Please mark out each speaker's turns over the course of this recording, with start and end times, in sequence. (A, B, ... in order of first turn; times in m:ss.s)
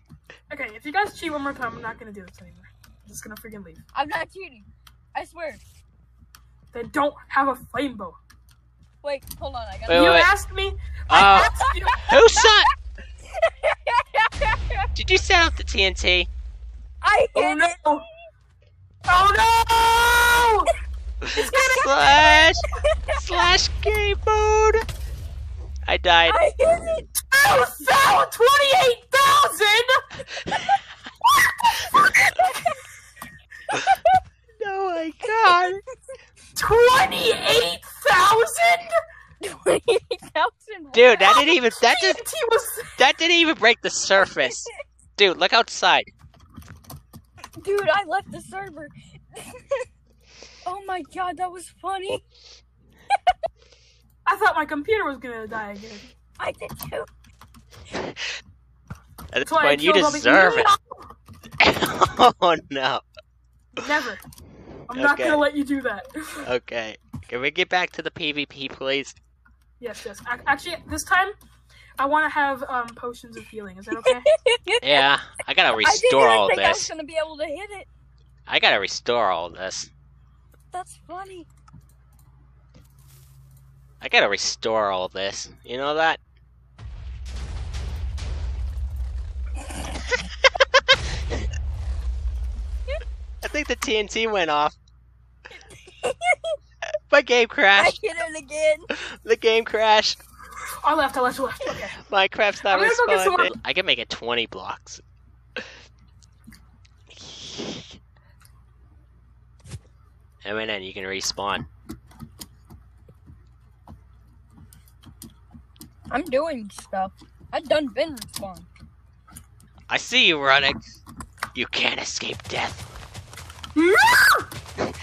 0:00.5-0:03.8 A
0:03.9-0:05.6 B
0:06.7-0:08.2 A
0:09.0-0:10.2 B
0:09.9-0:10.3 C
0:09.9-0:12.2 A
0:11.1-0:12.7 C
0:11.4-0:12.6 B
0:13.3-0:14.9 B
0:15.0-0:16.3 C
0:17.0-0:18.0 B
0:17.4-0:18.1 A
0:19.1-0:20.7 A
0:21.2-0:24.8 C
0:21.5-0:23.5 B
0:25.9-0:26.4 C
0:26.3-0:27.1 B
0:27.2-0:30.1 A
0:31.5-0:32.2 A
0:32.3-0:32.8 B
0:33.8-0:34.2 B
0:34.6-0:35.8 C
0:35.2-0:35.8 B
0:36.6-0:38.9 A
0:39.4-0:41.3 B
0:40.9-0:42.2 C
0:41.4-0:43.0 A
0:43.0-0:46.1 C
0:44.2-0:44.8 B
0:47.6-0:49.9 B
0:50.6-0:52.2 B
0:54.2-0:56.1 A
0:56.4-0:57.1 B
0:59.3-1:00.7 C
0:59.4-1:01.1 A
1:01.6-1:03.0 C
1:03.8-1:04.2 A
1:04.9-1:06.5 A
1:04.9-1:05.4 C
1:06.4-1:09.2 C
1:09.8-1:11.4 A
1:12.0-1:14.3 A
1:13.9-1:15.1 B
1:14.8-1:16.9 C
1:15.8-1:17.9 B
1:18.5-1:19.9 C
1:20.7-1:21.5 B
1:24.0-1:26.2 C
1:33.4-1:34.8 C
1:35.9-1:36.6 B
1:37.1-1:38.0 C
1:37.8-1:38.9 B
1:39.0-1:40.2 C
1:40.8-1:42.0 A
1:42.0-1:45.0 C
1:42.7-1:43.5 A
1:47.1-1:48.0 C
1:50.4-1:51.7 C
1:56.1-1:58.7 B
1:59.9-2:00.8 C
2:01.5-2:02.9 C
2:03.8-2:04.5 A